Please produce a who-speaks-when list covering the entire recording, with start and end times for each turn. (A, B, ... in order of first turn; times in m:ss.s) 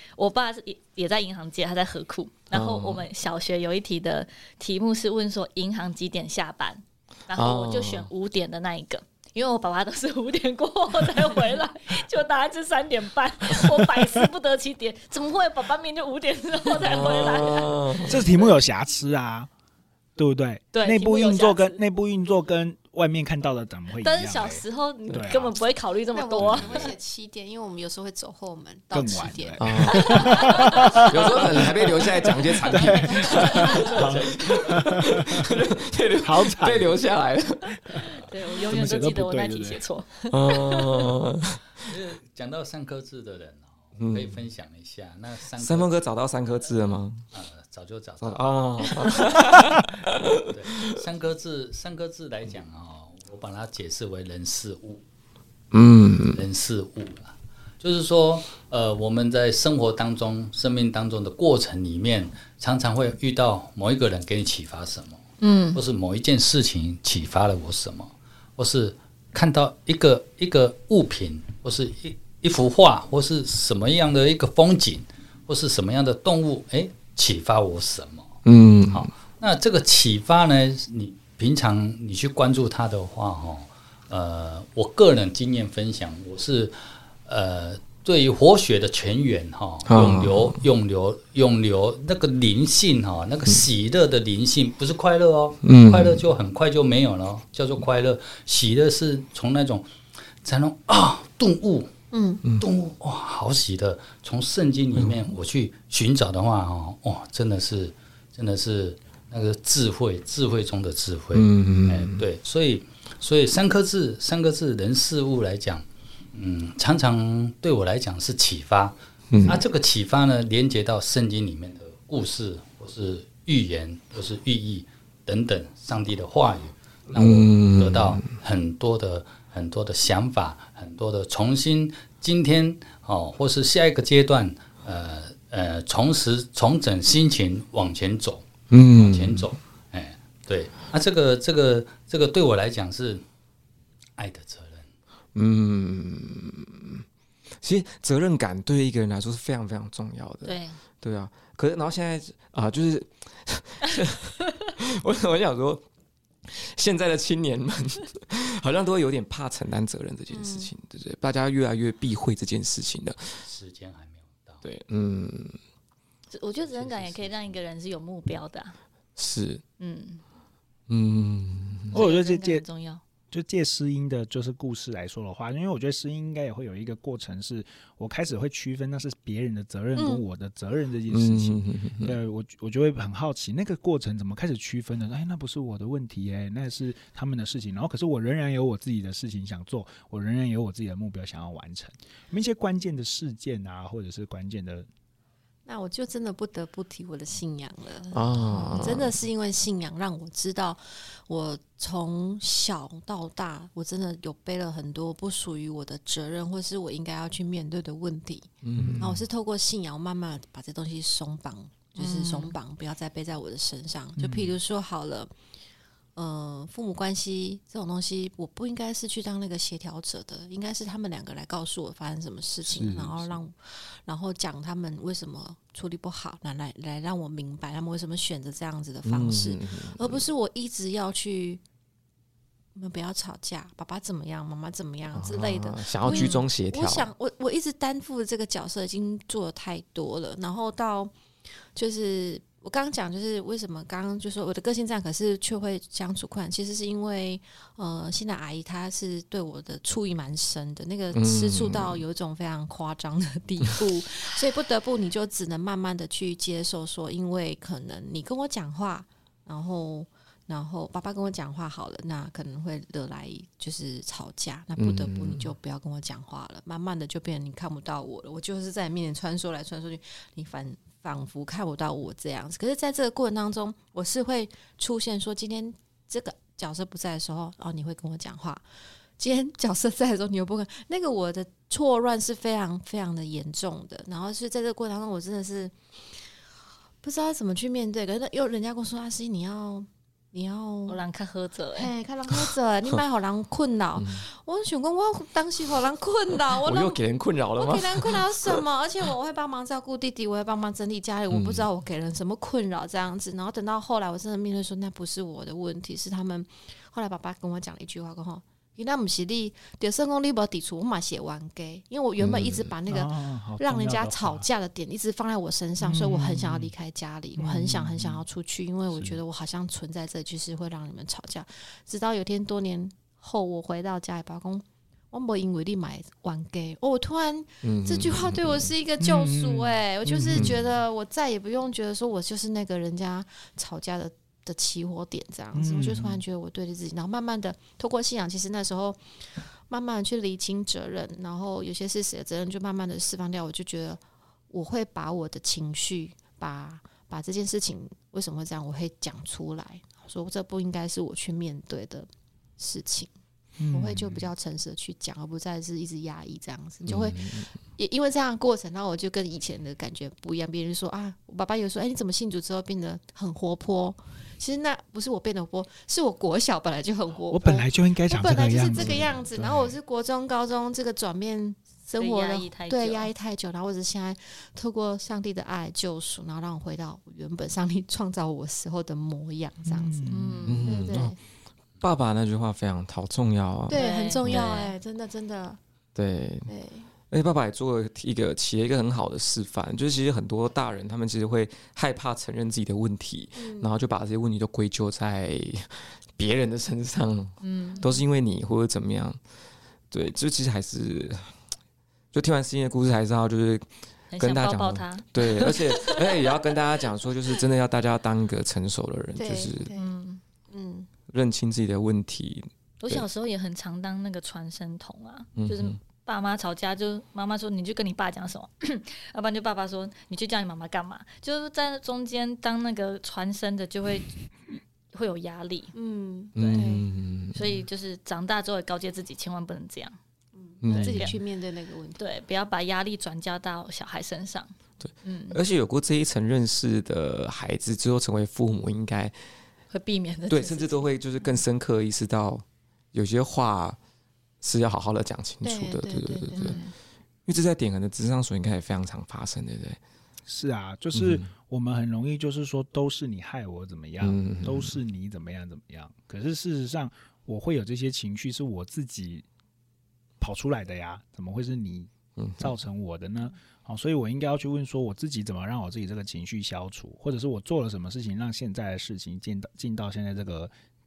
0:00.2-0:18.6 A
0:02.5-0:03.1 B
0:07.4-0:08.1 B
0:16.8-0:18.1 B
0:18.1-0:19.5 C
0:20.2-0:25.5 C
0:20.7-0:21.8 A
0:24.0-0:26.9 A
0:26.1-0:31.7 D
0:28.9-0:31.4 C
0:29.6-0:30.1 B
0:30.0-0:30.7 A
0:31.1-0:37.7 B
0:32.7-0:35.5 C
0:33.4-0:33.9 A
0:33.6-0:34.9 E
0:36.2-0:37.0 C
0:38.1-0:41.1 A
0:38.7-0:39.8 C
0:40.3-0:41.6 B
0:41.8-0:45.9 E
0:44.0-0:44.3 B
0:45.6-0:47.2 B
0:47.3-0:49.4 E
0:48.2-0:51.0 B
0:50.4-0:55.0 E
0:55.7-0:56.4 B
0:56.3-1:18.4 E
1:05.4-1:05.8 A
1:18.4-1:19.1 B
1:18.9-1:39.9 E
1:29.9-1:30.6 B
1:35.6-1:36.2 B
1:40.4-1:41.9 E
1:42.1-1:42.4 D
1:42.6-2:23.2 E
1:51.3-1:52.2 B
1:59.3-1:59.6 B
2:07.1-2:08.2 B
2:18.7-2:19.5 B
2:24.2-2:24.9 E
2:25.4-2:27.0 B
2:27.6-2:35.8 B
2:30.4-2:30.8 A
2:36.5-2:43.4 B
2:40.3-2:40.7 D
2:43.4-2:44.6 E
2:44.6-2:45.6 B
2:46.3-2:48.8 A
2:46.6-2:47.6 E
2:49.2-2:49.6 B
2:49.8-2:50.2 A
2:50.9-2:52.0 B
2:51.9-2:53.0 A
2:51.9-2:52.6 C
2:53.3-3:14.9 C
3:00.0-3:00.2 D
3:01.1-3:02.2 B
3:15.7-3:35.3 D
3:18.1-3:19.2 B
3:28.6-3:29.2 B
3:32.0-3:32.5 A
3:34.2-3:34.6 C
3:36.2-3:51.6 D
3:42.7-3:43.4 C
3:49.0-3:50.3 B
3:52.8-4:38.7 D
3:55.1-3:57.1 B
3:56.1-3:56.4 A
4:11.1-4:12.0 B
4:24.8-4:25.5 B
4:39.2-4:46.3 D
4:47.0-4:51.0 D
4:50.9-4:51.9 A
4:51.8-4:57.0 D
4:54.0-4:54.2 B
4:56.5-4:58.6 B
4:57.6-5:53.1 D
5:01.3-5:01.7 B
5:12.2-5:12.7 B
5:12.9-5:14.5 C
5:15.8-5:16.7 C
5:17.4-5:18.2 C
5:27.6-5:28.7 B
5:29.0-5:30.5 C
5:30.3-5:30.6 B
5:35.5-5:36.2 C
5:53.6-5:54.0 C
5:53.7-6:21.2 D
5:56.8-5:57.5 B
6:07.3-6:09.7 C
6:08.7-6:09.2 B
6:12.0-6:13.1 A
6:19.6-6:20.5 C
6:20.1-6:21.0 A
6:20.4-6:21.2 B
6:21.8-6:24.5 B
6:23.7-6:24.7 A
6:23.7-6:25.6 D
6:26.0-6:26.5 B
6:26.5-6:26.9 D
6:27.1-6:39.2 B
6:33.4-6:33.7 D
6:37.4-6:38.0 A
6:39.9-6:41.3 B
6:42.1-6:43.7 B
6:44.1-6:46.2 A
6:44.2-6:49.7 B
6:49.2-6:50.0 D
6:49.7-6:50.2 A
6:50.5-6:50.9 D
6:51.1-6:53.1 B
6:52.8-7:04.1 A
6:55.4-6:55.8 B
7:04.9-7:05.7 A
7:05.7-7:06.8 D
7:06.4-7:07.6 B
7:06.4-7:06.7 A
7:07.3-7:10.0 A
7:10.4-7:12.0 D
7:10.6-7:11.2 B
7:10.7-7:11.2 A
7:12.0-7:14.5 A
7:14.8-7:19.1 B
7:15.0-7:15.4 A
7:19.7-7:20.8 A
7:20.3-7:23.8 B
7:24.4-7:26.6 B
7:25.4-7:26.7 D
7:26.3-7:26.7 A
7:27.3-7:29.8 B
7:30.3-7:39.2 C
7:31.0-7:31.2 B
7:34.0-7:34.7 B
7:40.2-7:50.5 C
7:42.2-7:42.5 B